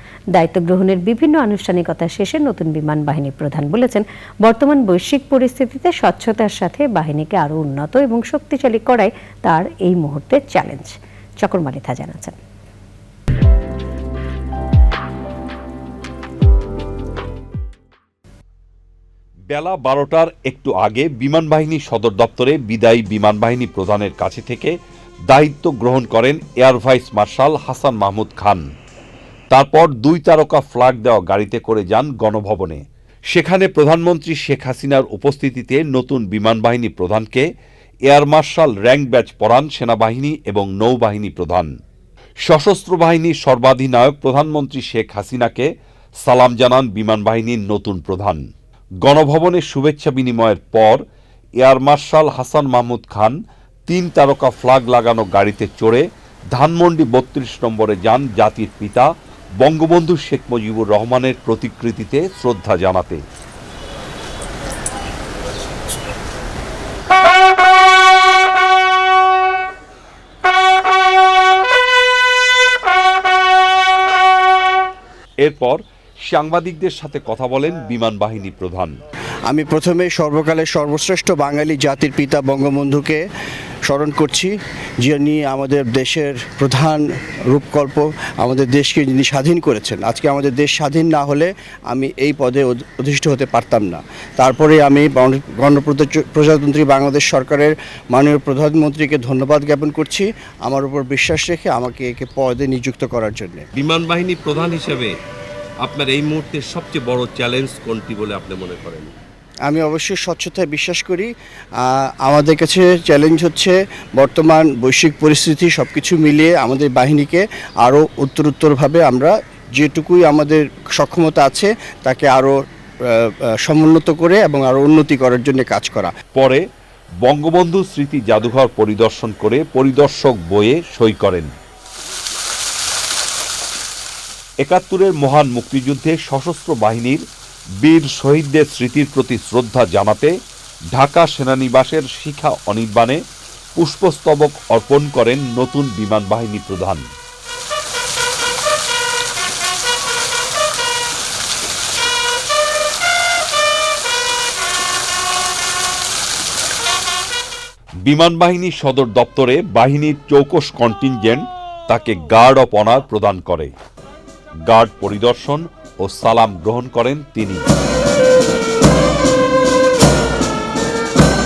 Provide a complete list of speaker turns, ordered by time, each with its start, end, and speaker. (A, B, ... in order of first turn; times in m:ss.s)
0:00.3-0:12.4 A
0:19.5-0:24.7 B
0:25.3-0:28.6 B
0:29.5-0:37.4 B
0:38.1-0:41.7 B
0:42.4-0:45.7 B
0:46.2-0:48.4 B
0:49.0-0:51.0 B
0:51.6-1:03.2 B
1:15.4-1:18.9 B
1:19.5-1:23.2 C
1:23.8-1:43.6 C
1:43.8-1:45.1 D
1:45.8-1:49.1 D
1:46.6-1:47.2 B
1:49.6-2:06.1 C
2:06.3-2:06.6 B
2:07.2-2:11.5 B
2:14.6-2:17.2 B
2:17.8-2:20.3 B
2:20.9-2:23.2 B
2:23.8-2:27.0 B
2:38.0-2:43.7 B
2:44.7-2:47.6 B